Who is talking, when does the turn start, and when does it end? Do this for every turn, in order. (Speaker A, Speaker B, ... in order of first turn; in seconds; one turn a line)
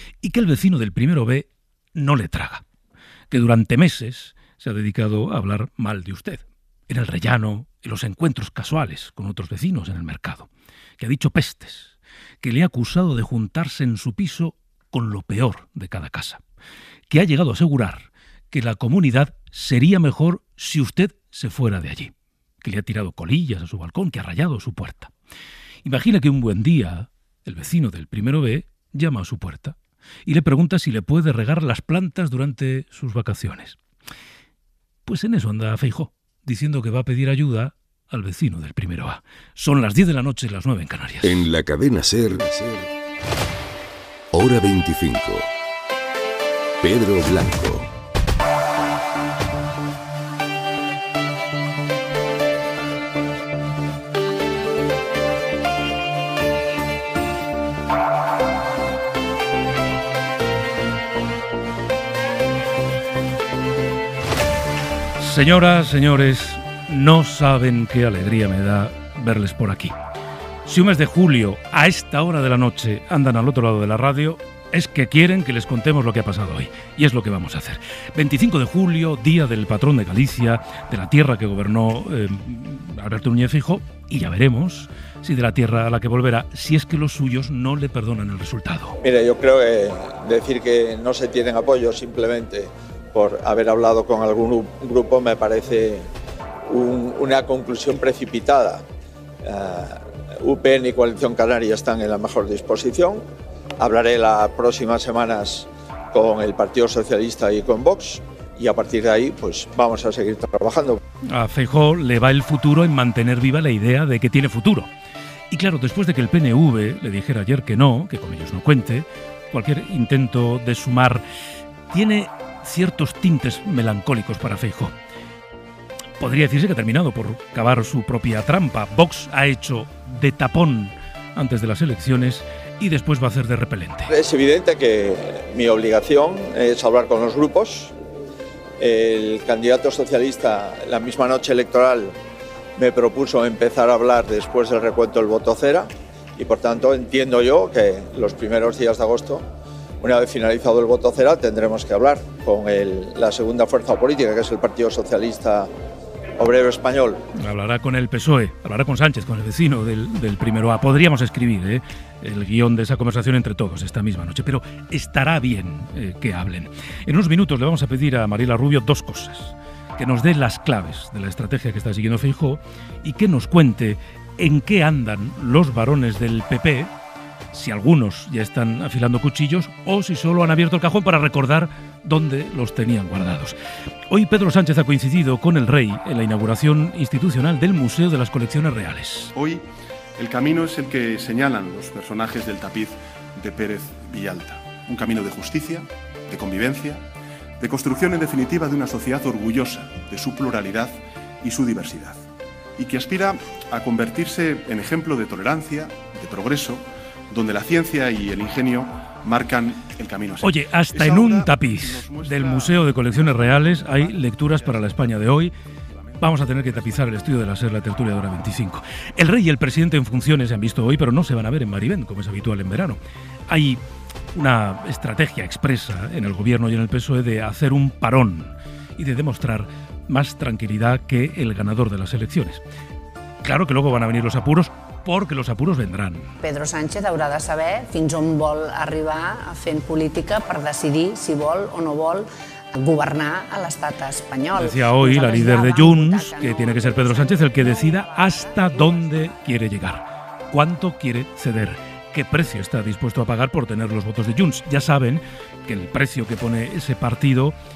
Speaker A: 0.2-2.6
Speaker A: 3.3-10.5
Speaker A: 11.0-16.4
Speaker A: 17.1-25.1
Speaker A: 25.8-29.8
Speaker A: 30.2-33.8
Speaker A: 35.0-41.4
Speaker B: 41.2-42.9
Speaker B: 44.3-45.5
Speaker B: 46.8-47.9
Speaker A: 65.2-70.0
Speaker A: 70.7-89.0
Speaker C: 89.0-96.1
Speaker C: 96.7-98.8
Speaker C: 99.4-103.2
Speaker C: 103.8-111.0
Speaker A: 111.3-114.9
Speaker A: 115.5-121.2
Speaker A: 121.9-124.9
Speaker A: 126.2-134.1
Speaker C: 134.1-137.9
Speaker C: 138.8-142.2
Speaker C: 142.8-149.5
Speaker C: 150.0-155.7
Speaker C: 156.4-157.2
Speaker A: 157.4-176.9
Speaker A: 177.5-183.6
Speaker A: 184.1-189.3
Speaker D: 189.3-189.7
Speaker D: 190.2-197.1
Speaker D: 197.6-202.2
Speaker D: 202.8-217.7
Speaker A: 210.4-215.5
Speaker A: 216.2-223.8
Speaker A: 224.3-232.6
Speaker A: 233.4-236.3
Speaker E: 236.4-249.4
Speaker A: 244.6-257.6